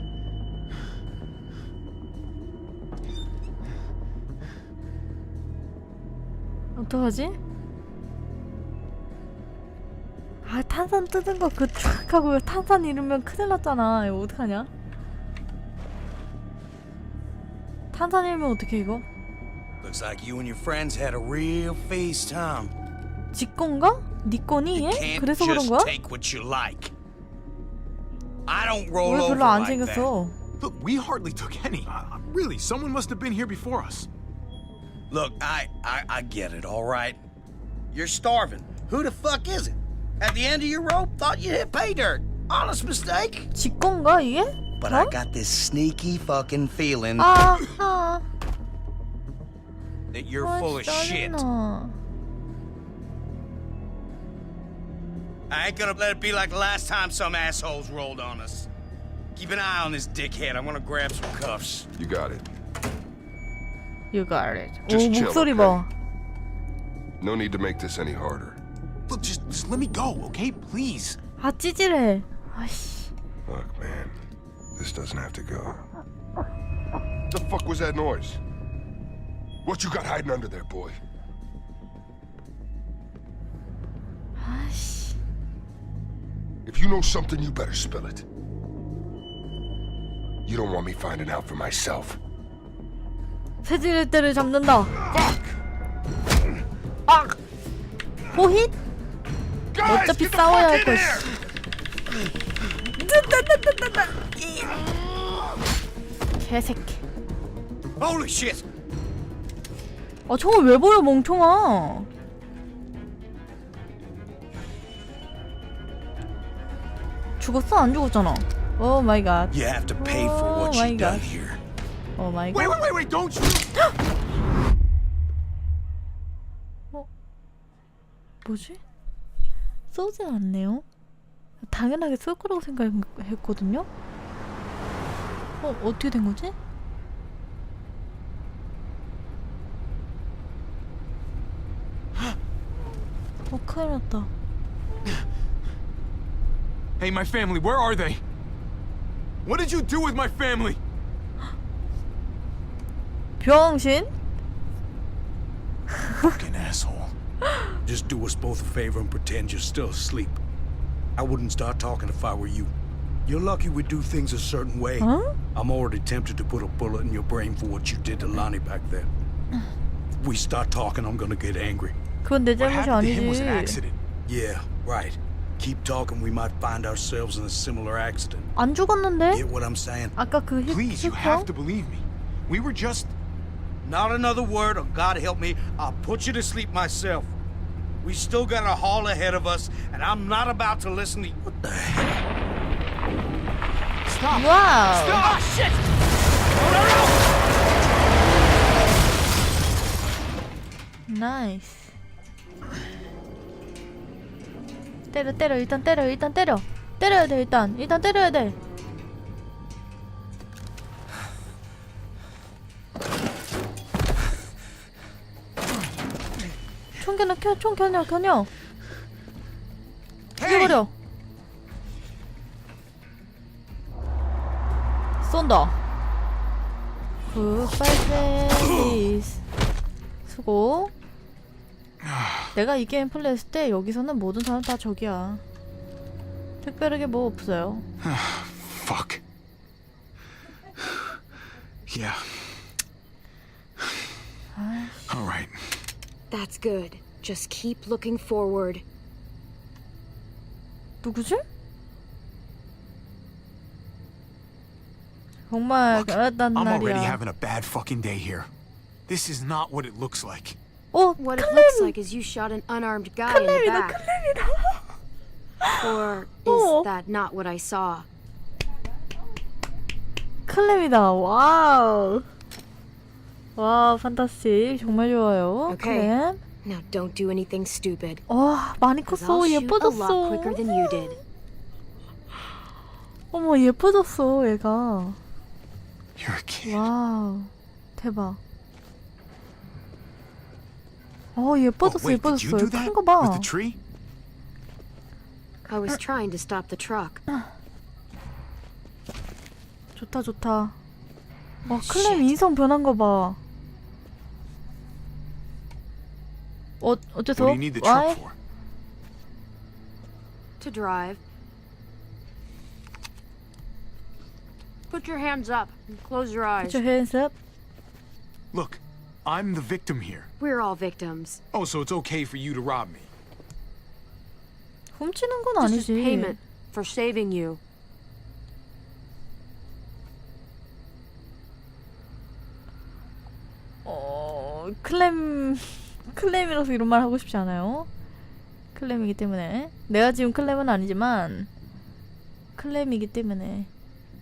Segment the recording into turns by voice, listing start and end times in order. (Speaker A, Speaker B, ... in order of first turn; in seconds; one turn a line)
Speaker A: 6.8-7.4
Speaker A: 10.4-14.7
Speaker A: 17.9-19.0
Speaker B: 19.8-22.7
Speaker A: 23.3-25.9
Speaker B: 24.7-26.9
Speaker B: 28.5-30.1
Speaker A: 29.0-30.3
Speaker C: 30.6-34.1
Speaker B: 35.1-37.2
Speaker B: 37.9-43.5
Speaker A: 43.5-45.1
Speaker B: 44.8-47.6
Speaker A: 47.2-48.2
Speaker B: 50.1-51.4
Speaker A: 50.4-51.9
Speaker B: 55.5-58.7
Speaker B: 59.3-61.9
Speaker D: 62.0-62.4
Speaker A: 64.1-65.9
Speaker D: 64.9-65.8
Speaker D: 67.2-68.6
Speaker C: 69.1-71.2
Speaker A: 71.4-73.1
Speaker D: 73.5-74.1
Speaker D: 74.8-75.8
Speaker D: 77.3-78.4
Speaker D: 79.6-81.0
Speaker A: 84.4-85.2
Speaker D: 86.7-88.2
Speaker D: 90.5-92.2
Speaker A: 93.6-95.0
Speaker A: 98.3-98.7
Speaker B: 99.8-101.2
Speaker A: 99.8-101.3
Speaker A: 103.0-104.8
Speaker A: 106.4-107.0
Speaker B: 108.0-108.7
Speaker A: 110.3-112.1
Speaker A: 117.4-121.2
Speaker B: 119.5-121.6
Speaker A: 122.2-122.8
Speaker C: 122.5-123.7
Speaker A: 128.4-128.8
Speaker A: 129.9-130.8
Speaker A: 131.6-133.9
Speaker A: 135.6-136.5
Speaker A: 143.5-144.3
Speaker C: 147.0-148.2
Speaker C: 149.4-150.8
Speaker A: 153.4-154.1
Speaker C: 156.2-157.1
Speaker B: 157.8-160.4
Speaker B: 161.2-162.7
Speaker B: 163.2-169.1
Speaker A: 165.0-165.3
Speaker B: 170.2-171.9
Speaker A: 172.2-173.8
Speaker C: 172.6-174.0
Speaker B: 174.3-178.5
Speaker A: 178.6-179.4
Speaker B: 179.3-180.1
Speaker A: 180.2-181.5
Speaker C: 180.7-183.1
Speaker B: 183.8-187.3
Speaker B: 188.0-191.4
Speaker C: 194.1-195.4
Speaker A: 194.3-195.2
Speaker B: 195.2-195.8
Speaker B: 196.6-197.1
Speaker A: 201.1-201.9
Speaker A: 205.1-208.6
Speaker A: 217.0-218.5
Speaker B: 220.4-220.7
Speaker A: 220.4-220.9
Speaker A: 225.2-225.8
Speaker A: 227.3-229.4
Speaker A: 230.2-230.9
Speaker C: 232.0-232.5
Speaker A: 232.5-235.4
Speaker A: 236.6-237.8
Speaker C: 238.0-239.2
Speaker C: 240.8-241.1
Speaker C: 241.9-242.7
Speaker C: 243.8-244.1
Speaker A: 244.5-245.2
Speaker C: 245.1-245.8
Speaker E: 246.3-248.8
Speaker A: 251.0-251.4
Speaker A: 255.5-257.2
Speaker C: 255.9-258.5
Speaker C: 259.1-260.6
Speaker A: 260.9-261.9
Speaker E: 261.2-264.0
Speaker A: 263.3-264.8
Speaker E: 265.8-268.1
Speaker A: 266.4-266.9
Speaker A: 270.5-272.2
Speaker A: 273.6-276.4
Speaker E: 275.7-276.1
Speaker E: 276.6-278.2
Speaker A: 278.3-281.1
Speaker E: 279.1-281.2
Speaker A: 283.3-285.2
Speaker C: 286.1-286.8
Speaker A: 286.6-288.4
Speaker A: 291.4-293.5
Speaker C: 291.8-293.8
Speaker E: 295.7-297.2
Speaker A: 299.9-300.7
Speaker E: 301.6-302.3
Speaker A: 301.7-303.4
Speaker A: 306.8-308.2
Speaker C: 307.4-308.4
Speaker E: 310.6-311.2
Speaker E: 314.9-316.8
Speaker A: 316.6-317.3
Speaker C: 318.5-320.3
Speaker E: 320.4-321.4
Speaker C: 321.5-323.1
Speaker A: 324.9-326.4
Speaker E: 325.6-327.6
Speaker A: 333.8-337.9
Speaker A: 338.7-341.5
Speaker A: 342.6-343.7